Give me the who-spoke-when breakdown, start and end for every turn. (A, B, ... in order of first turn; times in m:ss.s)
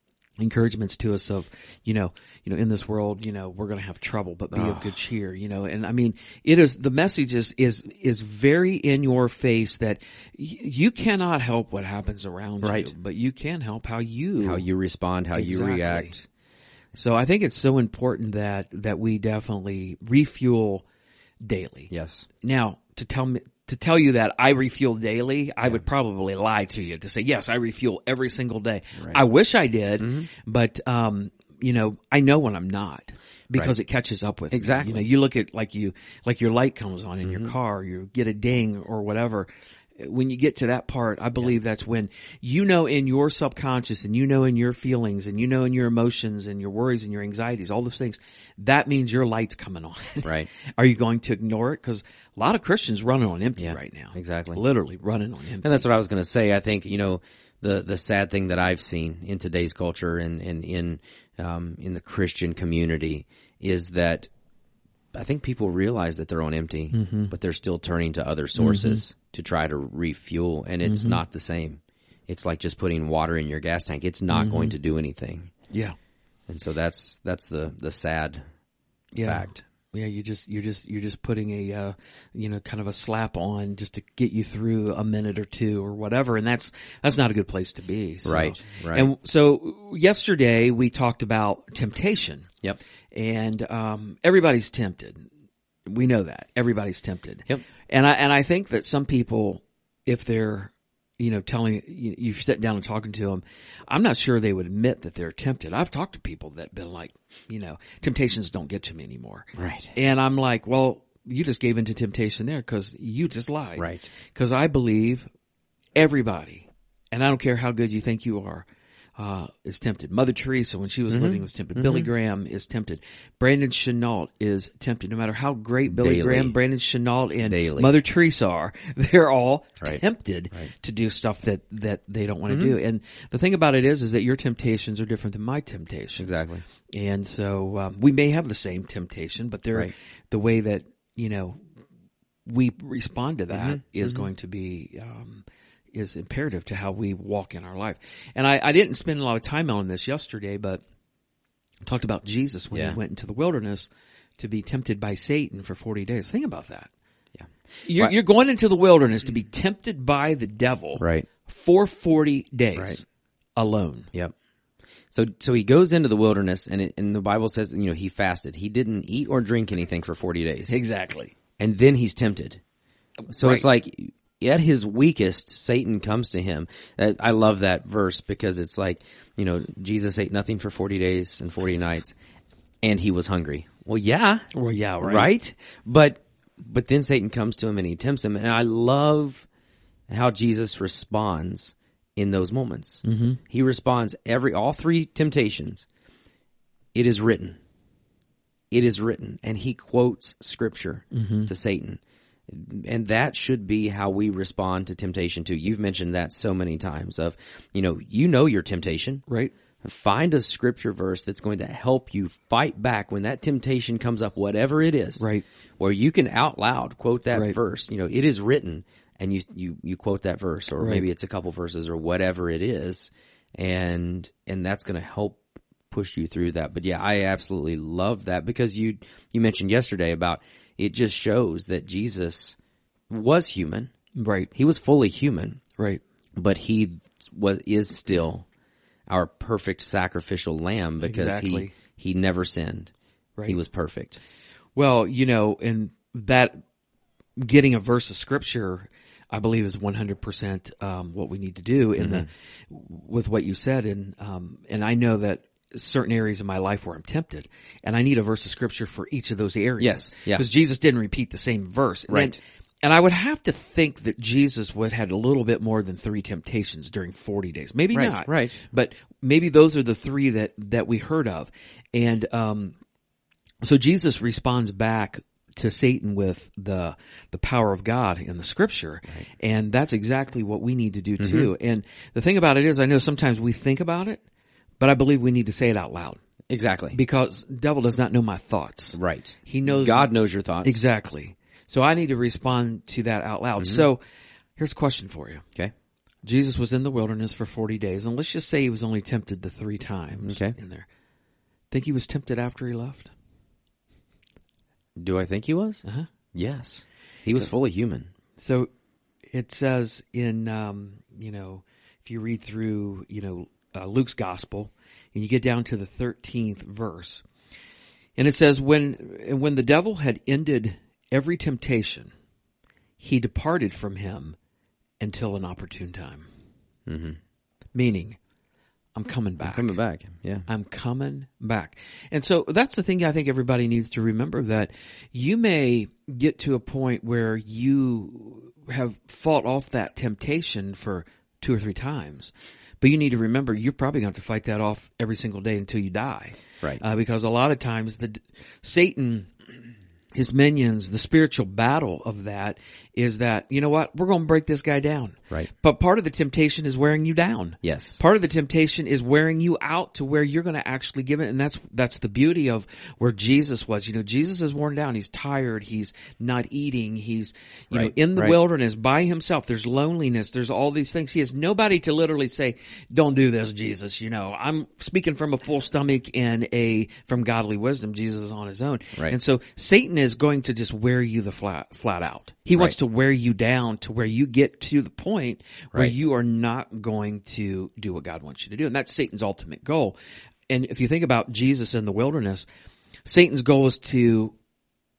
0:00.4-0:14.7 A
0:04.5-0:05.0 B
0:12.6-0:12.9 B
0:14.4-0:16.3 B
0:15.3-0:16.1 A
0:17.0-0:20.8 A
0:21.4-0:21.9 A
0:21.9-0:22.3 B
0:22.4-0:55.9 A
0:30.0-0:30.3 B
0:34.5-0:35.1 B
0:37.2-0:37.5 B
0:50.2-0:50.5 B
0:53.6-0:54.6 B
0:55.6-1:04.3 B
1:05.1-1:15.5 B
1:06.9-1:07.3 A
1:08.6-1:09.0 A
1:10.8-1:11.2 A
1:14.3-1:14.8 A
1:16.5-1:18.4 B
1:19.1-1:32.5 A
1:19.2-1:19.6 B
1:28.2-1:29.1 B
1:33.1-1:35.3 A
1:35.9-1:55.3 A
1:49.6-1:49.9 B
1:53.8-1:54.1 B
1:56.0-1:58.7 A
1:59.2-2:21.6 A
2:01.1-2:02.1 B
2:05.9-2:06.6 B
2:07.4-2:07.9 B
2:12.5-2:12.8 B
2:16.2-2:16.6 B
2:22.5-2:30.8 A
2:23.5-2:24.3 B
2:31.8-2:36.9 A
2:32.7-2:33.0 B
2:37.4-2:38.2 B
2:37.8-2:43.0 A
2:41.0-2:41.3 B
2:42.8-2:43.0 B
2:43.6-2:44.1 A
2:45.1-2:50.8 B
2:50.7-2:51.3 A
2:51.6-2:52.6 B
2:53.3-2:53.6 A
2:53.3-3:02.1 B
3:02.8-3:04.5 B
3:04.5-3:05.3 A
3:05.0-3:09.5 B
3:10.1-3:15.9 B
3:13.0-3:13.4 A
3:17.0-3:17.6 B
3:18.7-3:29.2 B
3:21.1-3:21.5 A
3:29.3-3:29.5 A
3:29.8-3:35.2 B
3:35.2-3:35.4 A
3:35.8-3:52.6 B
3:40.8-3:41.0 A
3:53.1-3:53.9 B
3:54.2-3:54.5 A
3:54.5-3:55.6 B
3:56.4-3:58.5 B
3:59.1-4:02.9 B
4:01.0-4:01.7 A
4:03.5-4:04.2 B
4:04.8-4:06.6 A
4:07.4-4:32.8 A
4:12.0-4:12.3 B
4:19.8-4:20.4 B
4:22.1-4:22.4 B
4:27.9-4:28.6 B
4:33.6-4:44.2 A
4:41.2-4:41.5 B
4:44.8-4:46.2 A
4:46.5-4:47.0 B
4:46.9-4:50.1 A
4:49.0-4:50.8 B
4:50.6-4:54.0 A
4:53.6-4:53.9 B
4:54.6-4:55.4 A
4:56.2-5:00.9 A
5:00.2-5:00.6 B
5:01.7-5:03.1 A
5:05.0-5:08.1 B
5:08.4-5:08.7 A
5:09.3-5:17.2 A
5:18.2-5:22.1 A
5:23.0-5:24.4 A
5:25.0-5:26.3 A
5:26.9-5:27.2 B
5:27.7-5:28.2 A
5:29.0-5:29.8 A
5:29.4-5:30.5 B
5:30.5-5:49.3 A
5:50.1-6:30.0 A
5:57.6-5:58.0 B
6:07.7-6:08.4 B
6:30.5-6:32.5 A
6:33.1-6:34.3 A